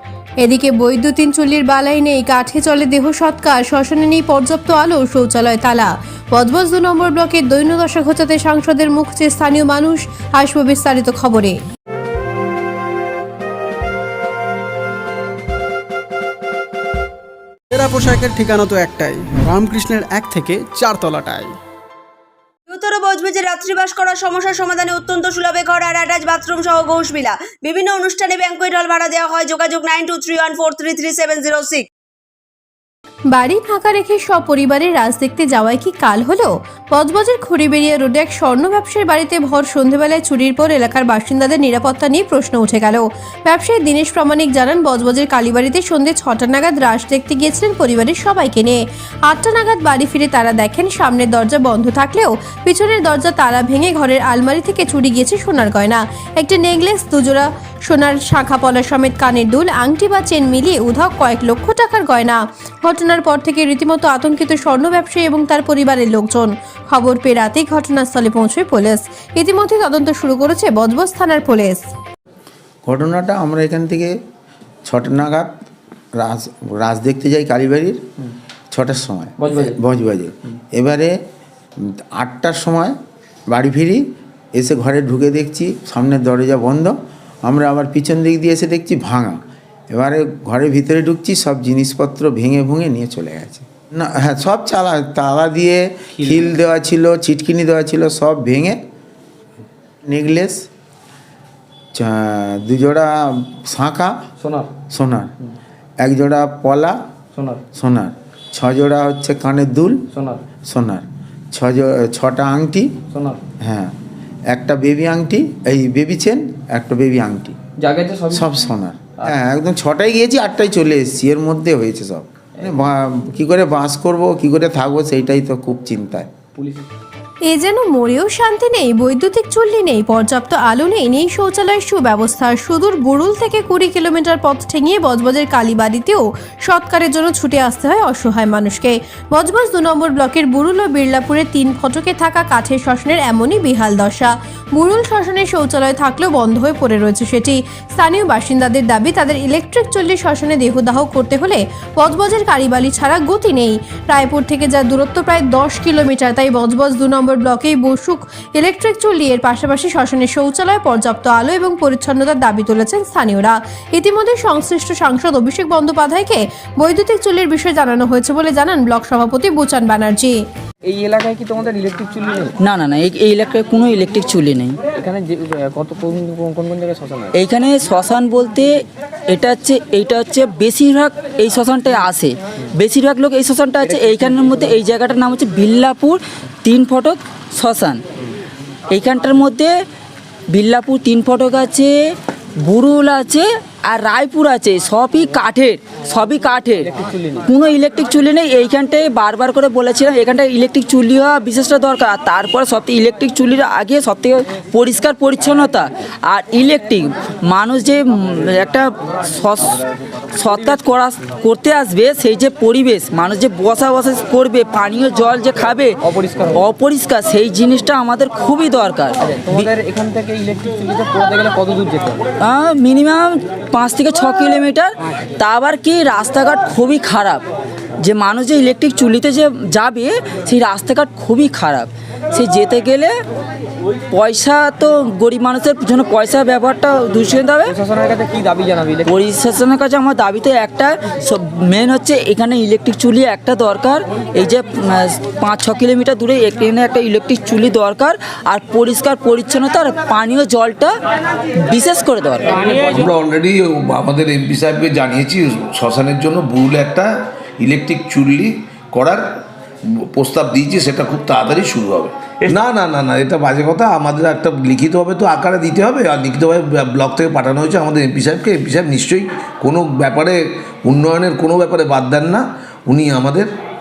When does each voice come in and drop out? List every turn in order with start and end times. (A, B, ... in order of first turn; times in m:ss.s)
0:00.4-0:11.6 A
0:17.7-0:21.5 B
0:22.7-0:31.9 C
0:33.3-1:11.9 A
1:12.8-1:14.2 D
1:14.9-1:15.5 D
1:16.2-1:18.0 D
1:18.7-1:21.2 D
1:21.8-1:23.0 D
1:23.5-1:38.8 D
1:40.0-1:40.6 D
1:41.9-1:44.2 D
1:44.4-1:44.7 E
1:44.9-1:45.3 D
1:46.0-1:47.0 D
1:47.4-1:47.6 E
1:47.7-1:50.1 D
1:50.1-1:50.4 E
1:50.7-1:53.0 D
1:53.1-1:53.4 E
1:53.6-1:54.0 D
1:54.5-1:57.6 D
1:57.8-1:58.4 E
1:58.3-2:06.3 D
2:06.6-2:06.9 E
2:07.5-2:50.4 A
2:50.8-2:52.5 E
2:52.6-2:54.8 F
2:55.0-2:57.3 E
2:57.3-3:08.0 F
3:08.9-3:09.7 F
3:10.5-3:39.9 F
3:39.8-3:42.2 E
3:42.4-3:47.5 F
3:48.0-3:53.1 F
3:54.1-4:10.9 F
3:58.4-3:58.7 E
4:11.6-4:12.8 F
4:12.6-4:19.2 G
4:20.2-4:33.5 G